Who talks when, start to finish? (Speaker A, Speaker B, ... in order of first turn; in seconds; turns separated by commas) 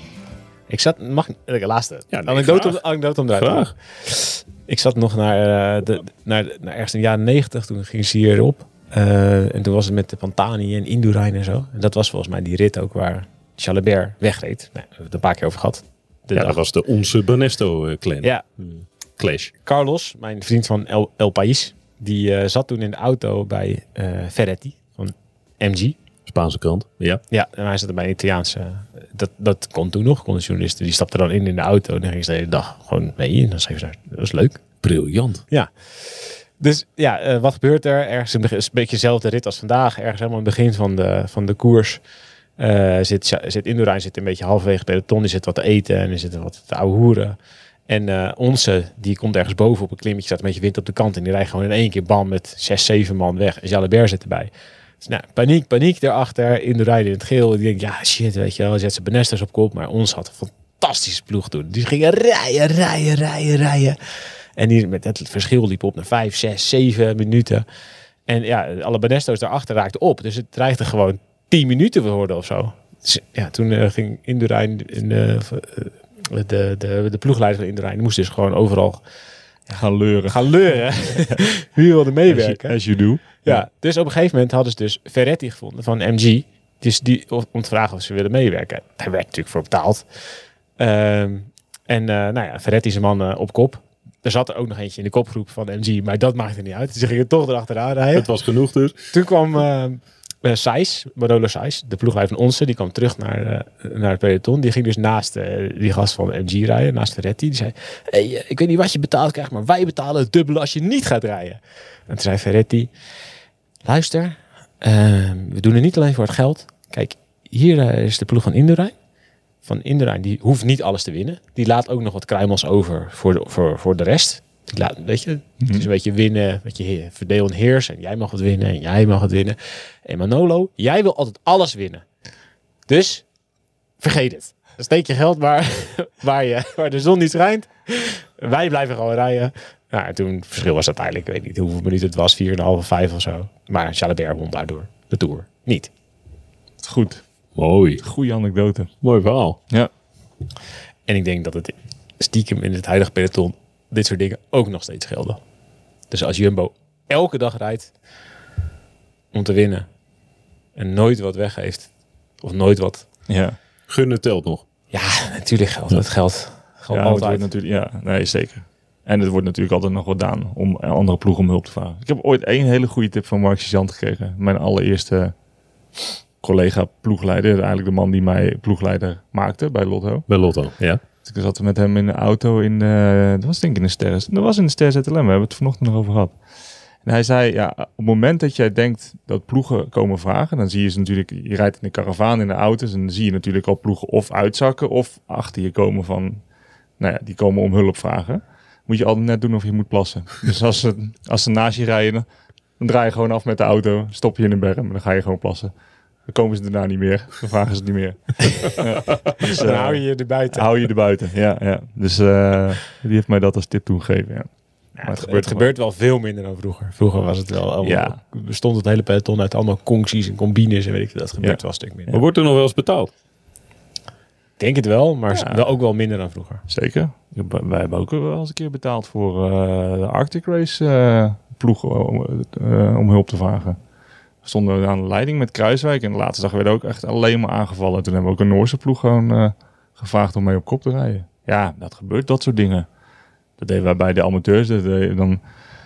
Speaker A: 0.7-16.6, Speaker B: 2.1-2.8, Speaker B: 3.3-3.7, Speaker B: 16.4-19.5, Speaker A: 19.6-26.0, Speaker B: 26.3-27.2, Speaker A: 27.3-34.6, Speaker B: 34.8-35.5, Speaker A: 35.5-42.0, Speaker A: 42.6-47.4, Speaker A: 47.9-64.0, Speaker A: 64.6-67.7, Speaker A: 68.3-79.0, Speaker C: 79.7-80.4, Speaker A: 80.3-82.8, Speaker C: 82.3-83.6, Speaker A: 83.3-90.2, Speaker A: 90.8-98.3, Speaker B: 98.1-99.1, Speaker A: 99.1-112.9, Speaker A: 113.9-119.0, Speaker A: 119.6-132.1, Speaker C: 125.6-125.9, Speaker A: 132.9-133.2, Speaker A: 134.0-145.9, Speaker C: 146.8-147.2, Speaker B: 147.6-148.0, Speaker C: 148.0-148.9, Speaker B: 149.0-149.6, Speaker A: 151.1-155.4, Speaker A: 156.1-157.9, Speaker A: 159.3-159.9, Speaker A: 160.8-161.9, Speaker A: 162.4-163.1, Speaker C: 163.3-163.6, Speaker B: 163.9-164.6, Speaker A: 164.9-167.5, Speaker C: 166.9-175.3, Speaker C: 176.4-180.3, Speaker B: 180.3-181.0, Speaker C: 181.2-186.4, Speaker C: 187.0-196.4, Speaker C: 197.0-202.2, Speaker C: 202.8-205.7, Speaker C: 206.3-214.5, Speaker A: 209.4-210.7, Speaker A: 215.0-222.2, Speaker C: 215.0-215.7, Speaker C: 217.8-218.2, Speaker C: 221.4-222.2, Speaker B: 222.1-223.1, Speaker A: 224.6-226.6, Speaker C: 225.3-225.7, Speaker C: 226.7-233.8, Speaker C: 234.4-242.9, Speaker C: 243.6-245.4